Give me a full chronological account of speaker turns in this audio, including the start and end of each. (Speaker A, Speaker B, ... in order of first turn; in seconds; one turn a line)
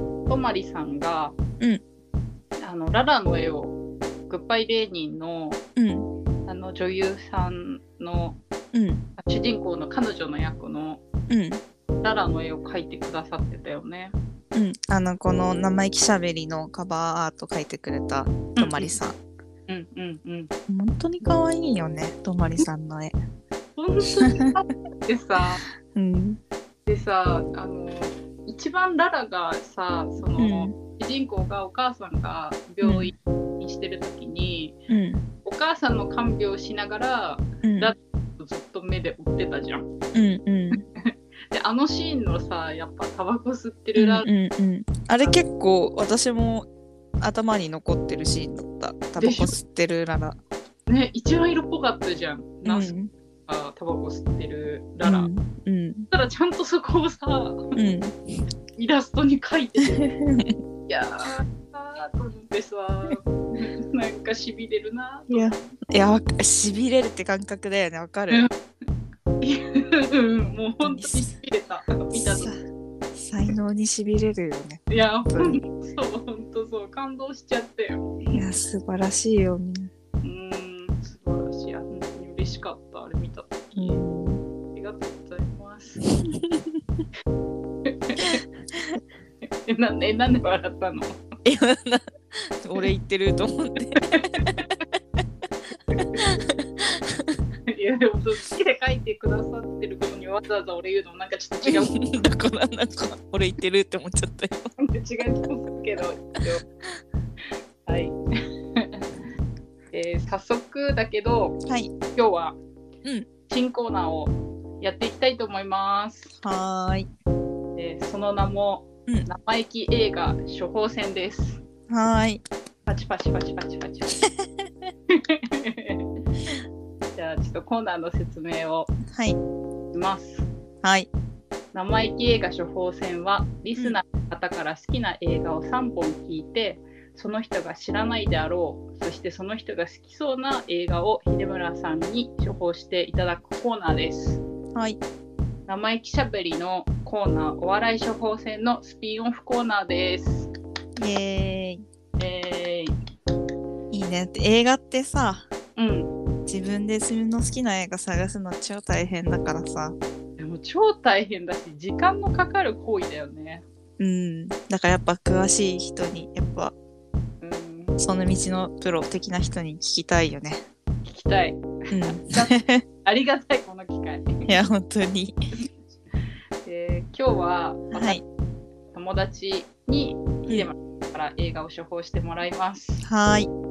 Speaker A: 0.3-1.4
Speaker A: 2.6-3.8
Speaker A: 4.3-5.6
Speaker B: 5.8-6.1
Speaker A: 6.5-8.4
Speaker B: 8.7-9.0
Speaker A: 9.2-11.0
Speaker B: 11.3-11.6
Speaker A: 12.0-14.1
Speaker B: 14.5-19.2
Speaker A: 18.5-18.9
Speaker A: 19.7-20.5
Speaker B: 20.7-23.2
Speaker A: 23.8-25.6
Speaker B: 24.2-24.5
Speaker B: 25.9-26.4
Speaker A: 26.9-34.8
Speaker B: 30.4-30.7
Speaker B: 32.8-33.1
Speaker B: 34.9-35.2
Speaker A: 35.4-39.9
Speaker B: 37.6-37.9
Speaker B: 40.1-40.8
Speaker A: 41.0-44.3
Speaker B: 44.0-46.7
Speaker B: 47.2-50.4
Speaker A: 49.2-49.6
Speaker A: 50.9-52.9
Speaker B: 52.6-53.1
Speaker A: 53.5-55.3
Speaker B: 55.0-56.1
Speaker A: 56.1-57.7
Speaker B: 57.8-58.2
Speaker A: 58.8-60.1
Speaker B: 59.9-60.6
Speaker A: 60.9-65.7
Speaker B: 65.3-68.5
Speaker A: 69.4-72.5
Speaker B: 70.8-71.3
Speaker B: 72.1-72.6
Speaker B: 73.1-75.6
Speaker A: 74.9-78.4
Speaker B: 78.3-79.9
Speaker A: 80.2-84.0
Speaker B: 83.8-84.4
Speaker A: 84.7-86.0
Speaker B: 86.3-86.8
Speaker A: 87.9-88.4
Speaker A: 89.6-91.2
Speaker B: 91.4-94.5
Speaker A: 94.1-94.7
Speaker B: 95.7-97.4
Speaker A: 95.9-96.5
Speaker A: 97.7-101.9
Speaker B: 101.6-104.7
Speaker A: 104.8-106.6
Speaker A: 107.8-108.2
Speaker A: 108.8-109.0
Speaker A: 109.9-111.6
Speaker B: 111.7-111.9
Speaker A: 112.2-112.6
Speaker A: 113.5-116.3
Speaker B: 116.4-117.1
Speaker A: 117.8-121.6
Speaker B: 121.9-122.4
Speaker A: 122.9-124.2
Speaker B: 124.2-124.5
Speaker A: 125.1-126.0
Speaker A: 127.1-128.9
Speaker B: 129.1-129.4
Speaker A: 129.9-130.5
Speaker B: 130.8-131.1
Speaker A: 131.7-144.4
Speaker A: 145.7-150.5
Speaker B: 151.0-151.8
Speaker A: 152.2-152.9
Speaker B: 153.9-155.5
Speaker A: 155.8-156.1
Speaker B: 156.5-160.0
Speaker A: 160.4-163.6
Speaker B: 164.0-166.7
Speaker A: 167.4-168.0
Speaker B: 168.0-170.6
Speaker A: 171.1-174.5
Speaker B: 171.9-172.8
Speaker B: 174.5-175.3
Speaker A: 176.6-178.2
Speaker B: 177.9-178.2
Speaker A: 178.9-183.1
Speaker B: 183.0-183.5